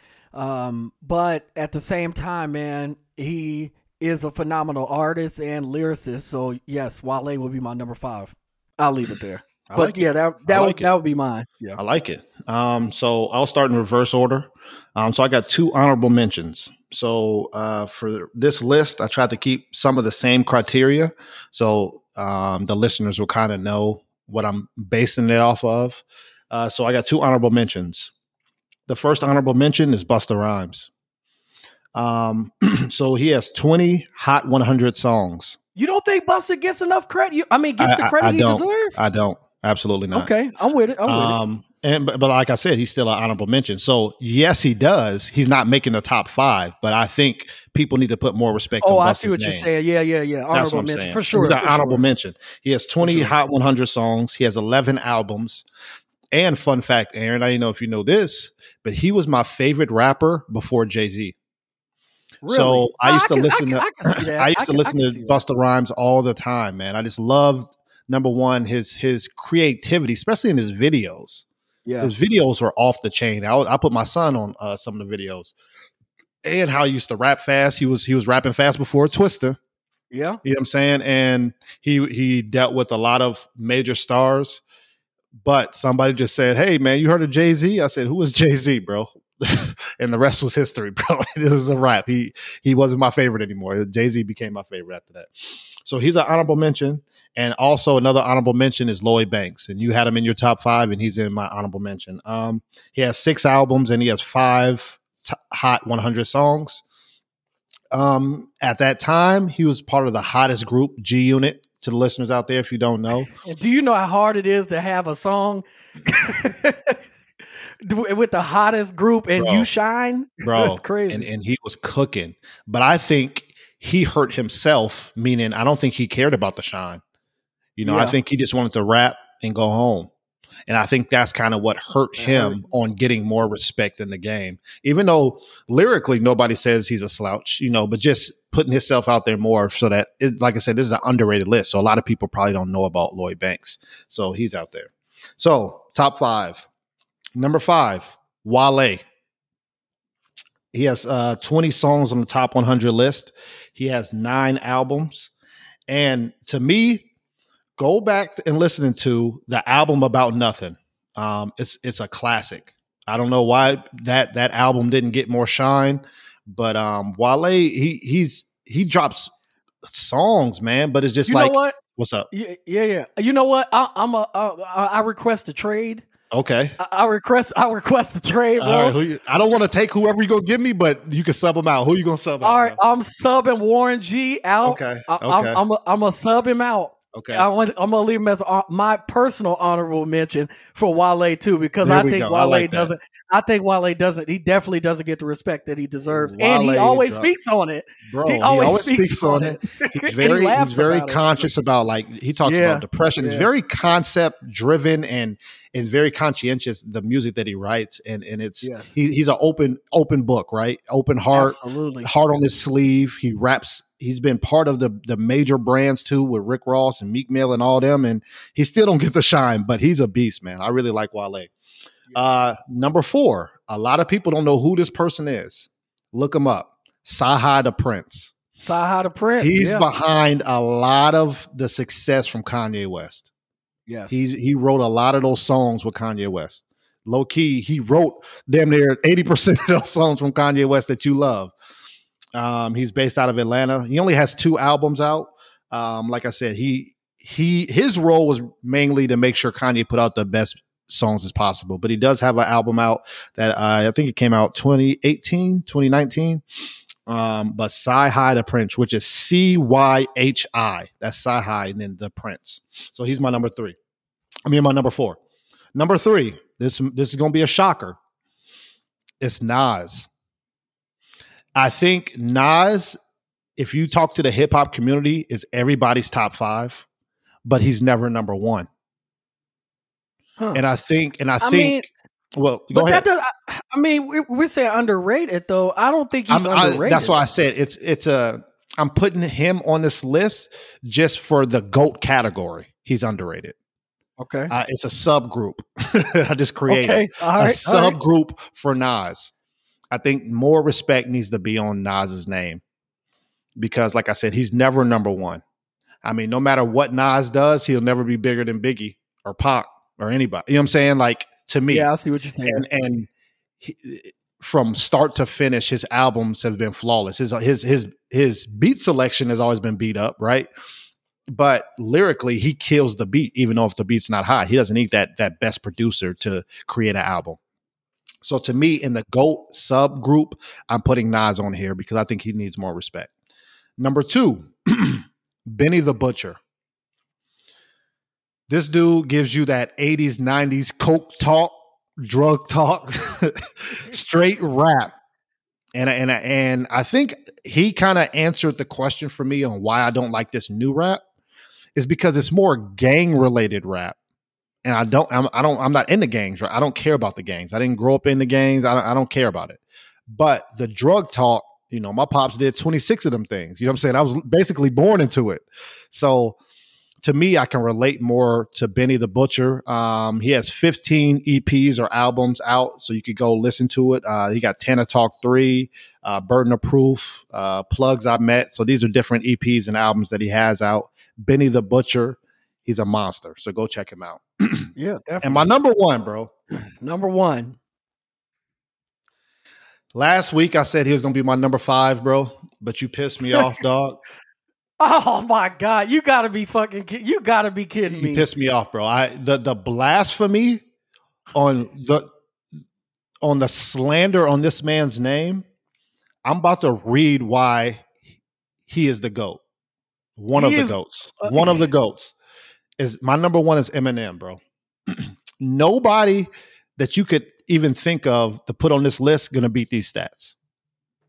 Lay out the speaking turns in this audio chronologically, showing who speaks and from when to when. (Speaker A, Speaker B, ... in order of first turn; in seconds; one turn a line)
Speaker A: 0.3-11.8
Speaker B: 9.7-10.9
Speaker B: 11.8-28.1
Speaker B: 28.9-30.9
Speaker B: 31.9-35.6
Speaker A: 35.8-38.9
Speaker B: 37.8-40.3
Speaker A: 40.1-41.4
Speaker B: 41.1-49.7
Speaker A: 48.8-52.0
Speaker B: 50.5-55.6
Speaker A: 53.0-53.3
Speaker B: 56.3-61.4
Speaker A: 62.4-65.4
Speaker B: 62.5-71.5
Speaker A: 71.9-72.1
Speaker B: 72.0-75.5
Speaker B: 76.4-79.6
Speaker A: 80.1-80.4
Speaker B: 80.4-84.6
Speaker B: 85.4-106.8
Speaker B: 107.9-113.3
Speaker A: 113.2-117.0
Speaker A: 117.8-121.3
Speaker B: 119.4-119.7
Speaker B: 120.4-127.0
Speaker B: 127.8-130.1
Speaker A: 127.8-128.2
Speaker B: 130.7-146.7
Speaker A: 132.2-132.6
Speaker B: 147.4-149.0
Speaker B: 150.7-155.3
Speaker B: 155.9-157.1
Speaker B: 157.8-169.3
Speaker B: 169.8-172.3
Speaker A: 171.3-171.8
Speaker A: 172.3-176.0
Speaker B: 176.3-176.8
Speaker A: 176.8-178.9
Speaker B: 178.6-182.8
Speaker A: 182.4-201.5
Speaker B: 184.6-185.6
Speaker B: 187.1-187.5
Speaker B: 191.8-192.9
Speaker B: 196.1-197.3
Speaker B: 198.1-221.5
Speaker A: 202.4-203.5
Speaker A: 208.6-208.9
Speaker A: 211.3-212.1
Speaker B: 222.1-228.3
Speaker A: 228.6-229.9
Speaker B: 229.4-233.3
Speaker A: 233.9-234.2
Speaker B: 234.1-241.5
Speaker B: 242.3-256.4
Speaker B: 257.1-263.8
Speaker B: 264.5-265.2
Speaker B: 265.8-268.0
Speaker B: 269.2-270.1
Speaker B: 271.6-273.0
Speaker B: 273.6-276.9
Speaker B: 277.5-278.7
Speaker B: 280.6-283.1
Speaker A: 281.4-281.9
Speaker A: 282.7-287.2
Speaker B: 286.3-293.6
Speaker A: 294.2-294.5
Speaker B: 294.5-299.3
Speaker A: 296.7-298.0
Speaker B: 299.9-302.6
Speaker B: 303.6-305.4
Speaker B: 306.0-311.9
Speaker A: 311.7-312.6
Speaker B: 312.5-313.1
Speaker B: 313.6-320.5
Speaker B: 321.3-327.4
Speaker B: 328.2-333.1
Speaker B: 333.8-336.4
Speaker B: 338.5-344.9
Speaker B: 345.7-351.0
Speaker B: 351.8-354.0
Speaker B: 354.6-366.4
Speaker B: 367.0-386.3
Speaker A: 384.8-385.5
Speaker A: 386.8-387.6
Speaker B: 389.9-394.0
Speaker A: 394.8-398.3
Speaker B: 397.9-400.6
Speaker B: 401.3-402.1
Speaker B: 403.2-405.4
Speaker B: 406.2-407.9
Speaker B: 408.7-409.4
Speaker B: 410.2-412.1
Speaker A: 410.4-411.6
Speaker B: 412.8-420.3